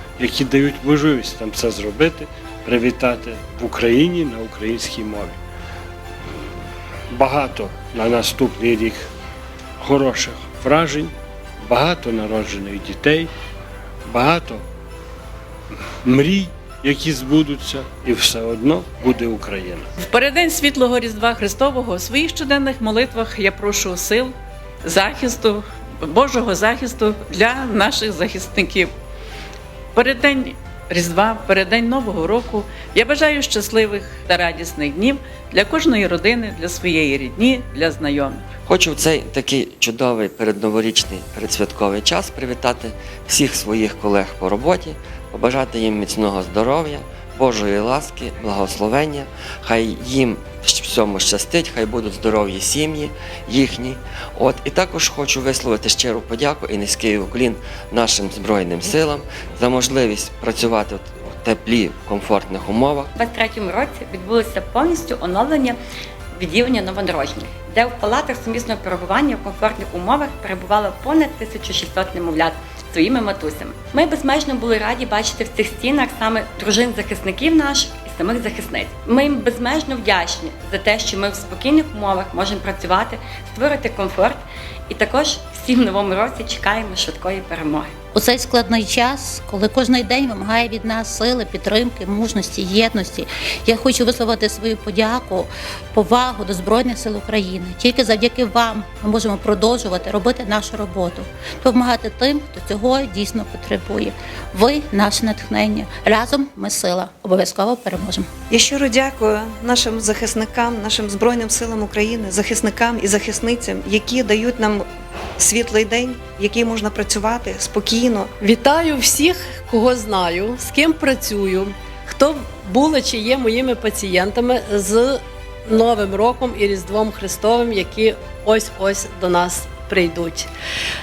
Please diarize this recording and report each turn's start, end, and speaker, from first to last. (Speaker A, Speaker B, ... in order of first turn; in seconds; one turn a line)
Speaker A: 0.2-5.4
Speaker A: 7.1-9.1
Speaker A: 9.8-13.3
Speaker A: 14.1-14.6
Speaker A: 16.0-19.9
Speaker B: 20.0-28.9
Speaker B: 29.9-38.5
Speaker C: 38.7-63.1
Speaker D: 63.2-65.8
Speaker D: 66.4-87.9
Speaker E: 88.1-108.3
Speaker F: 108.5-114.9
Speaker F: 115.4-118.3
Speaker G: 118.4-130.5